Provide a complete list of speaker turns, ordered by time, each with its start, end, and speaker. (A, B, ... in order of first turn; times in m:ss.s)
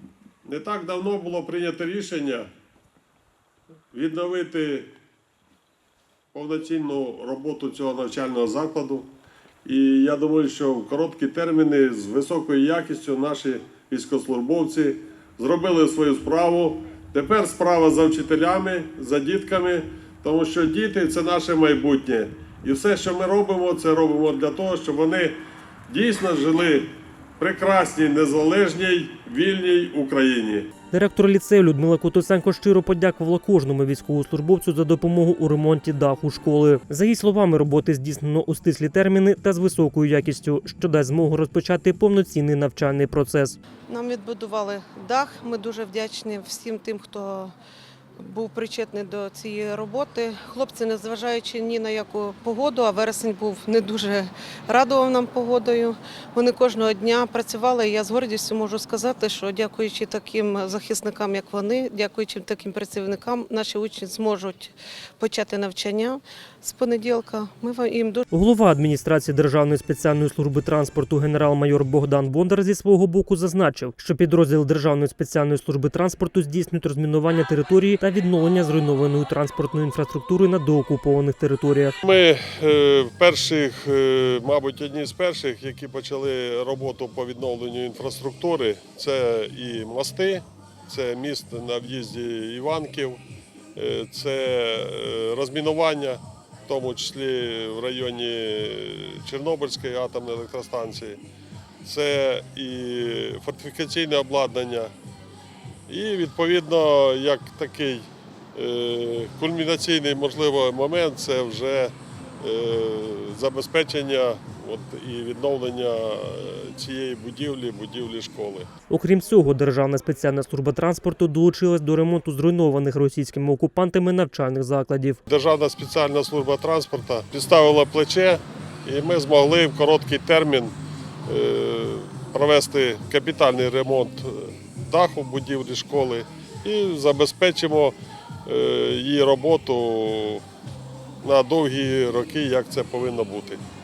0:00.4-0:02.5 A
0:03.9-0:04.9 A
0:06.3-0:09.1 A
0:09.6-0:30.7 A
0:30.9-0:43.6 B
0:43.9-0:47.5 C
0:48.2-1:08.3 C
1:08.3-1:22.0 B
1:22.0-1:33.2 A
1:33.8-1:41.2 A
1:41.8-1:44.9 A
1:45.9-1:58.7 A
1:58.9-2:05.2 B
2:05.3-2:10.8 A
2:11.3-2:20.4 A
2:21.2-2:23.6 A